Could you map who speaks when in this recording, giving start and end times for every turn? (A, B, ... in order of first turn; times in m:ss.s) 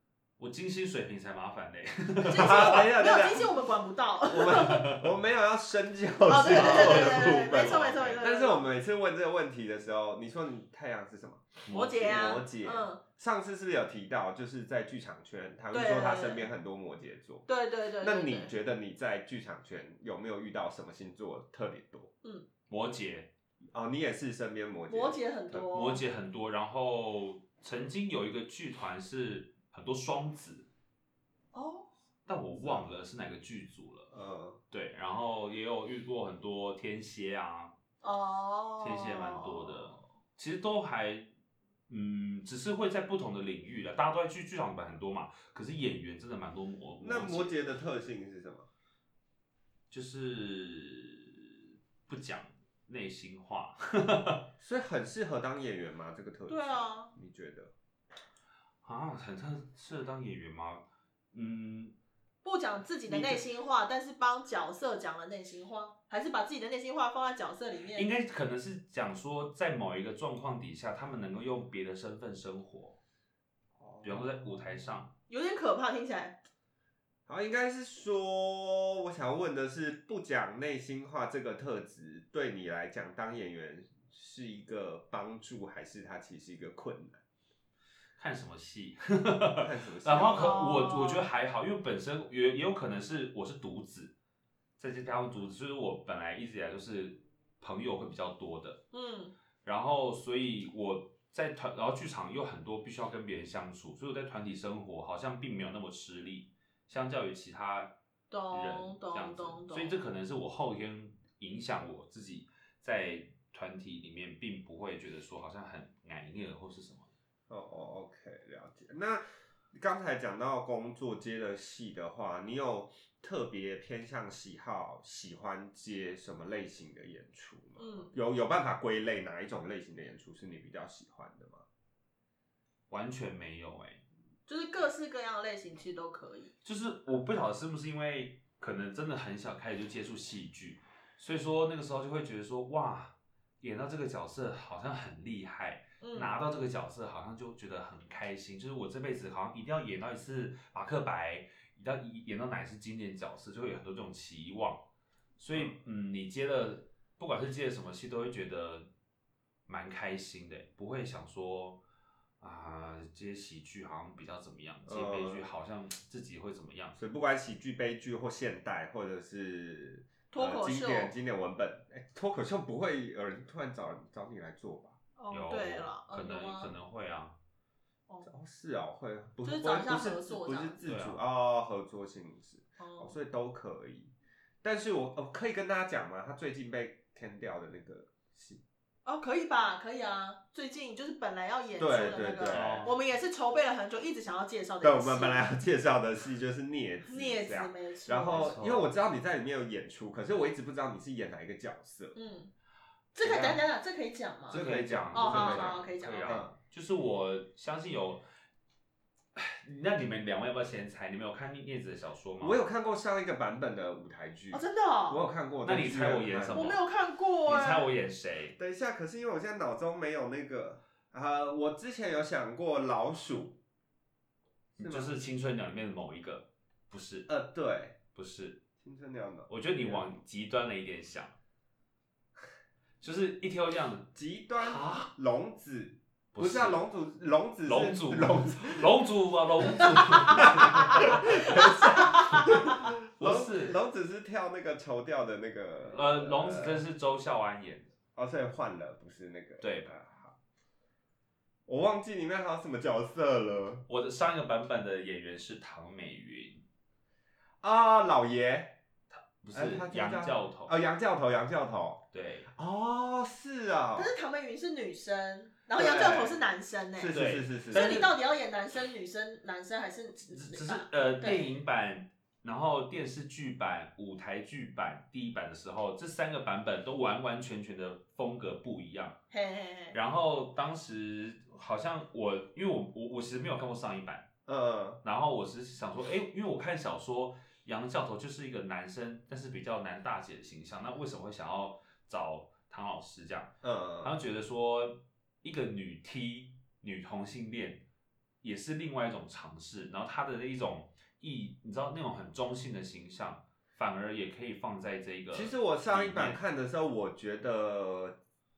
0:00.4-0:02.9 A
0:02.2-0:04.9 B
0:02.3-0:03.5 C
0:04.3-0:17.5 C
0:04.5-0:05.1 A
0:06.3-0:08.7 B
0:06.5-0:08.2 A
0:11.6-0:12.4 A
0:11.7-0:13.0 B
0:15.7-0:16.5 B
0:17.4-0:18.5 B
0:18.0-0:22.1 C
0:22.7-0:23.3 A
0:23.7-0:25.6 C
0:24.9-0:26.0 B
0:25.7-0:30.7 A
0:31.5-0:31.9 B
0:32.2-0:34.1 A
0:34.1-0:34.6 C
0:34.7-0:37.7 A
0:38.0-0:40.0 B
0:38.8-0:41.3 A
0:41.9-0:47.7 A
0:47.0-0:48.7 C
0:49.9-0:54.5 A
0:54.6-0:57.7 C
0:56.5-0:57.1 B
0:58.8-1:01.9 A
1:02.4-1:08.1 B
1:03.0-1:03.4 A
1:07.9-1:13.0 A
1:13.8-1:14.9 C
1:14.0-1:15.1 A
1:15.3-1:16.4 B
1:17.3-1:27.2 C
1:28.2-1:34.1 A
1:29.6-1:30.8 C
1:30.3-1:31.2 B
1:34.8-1:38.8 A
1:38.9-1:39.3 B
1:39.6-1:48.0 A
1:48.3-1:50.0 B
1:48.5-1:57.1 A
1:57.5-2:11.6 C
2:07.8-2:08.1 B
2:12.9-2:14.0 A
2:14.5-2:16.5 B
2:16.6-2:34.9 A
2:26.0-2:26.3 B
2:35.4-2:38.9 A
2:39.7-2:41.8 A
2:42.4-2:47.0 A
2:44.8-2:45.5 C
2:47.0-2:55.0 C
2:50.3-2:51.1 B
2:55.2-2:56.7 B
2:55.3-2:57.4 A
2:58.2-3:04.1 C
2:59.4-3:00.8 B
3:00.8-3:01.2 A
3:02.8-3:03.1 B
3:04.6-3:08.6 C
3:09.0-3:15.5 B
3:11.8-3:12.9 C
3:12.5-3:13.0 A
3:14.8-3:22.1 C
3:17.0-3:18.5 B
3:18.3-3:18.9 A
3:22.1-3:22.5 B
3:23.1-3:26.4 B
3:23.2-3:23.6 A
3:24.5-3:26.5 C
3:24.5-3:28.2 A
3:29.3-3:32.6 A
3:32.4-3:36.8 C
3:34.5-3:35.2 B
3:35.6-3:36.8 A
3:36.5-3:37.9 B
3:37.4-3:38.6 A
3:38.6-3:43.6 C
3:44.8-3:47.3 A
3:44.8-3:45.1 C
3:47.3-3:48.0 C
3:48.1-3:48.6 A
3:48.8-3:50.1 C
3:49.5-3:51.3 A
3:53.0-3:55.1 A
3:54.1-3:58.9 C
3:56.3-3:56.8 A
3:57.6-4:03.8 A
3:59.6-4:06.8 C
4:00.3-4:02.8 B
4:05.9-4:07.9 A
4:08.2-4:10.3 C
4:09.6-4:09.9 A
4:11.7-4:13.8 C
4:13.9-4:16.6 A
4:17.6-4:18.8 C
4:19.4-4:20.8 A
4:19.5-4:24.1 C
4:22.1-4:22.5 A
4:23.9-4:27.2 B
4:25.7-4:26.4 C
4:27.0-4:28.1 C
4:27.1-4:28.1 A
4:27.7-4:31.5 B
4:30.3-4:39.2 A
4:39.3-4:40.0 B
4:39.9-4:44.3 A
4:44.5-4:45.0 C
4:45.0-4:57.8 A
4:53.6-4:54.2 C
4:58.4-5:06.4 A
5:05.3-5:08.2 C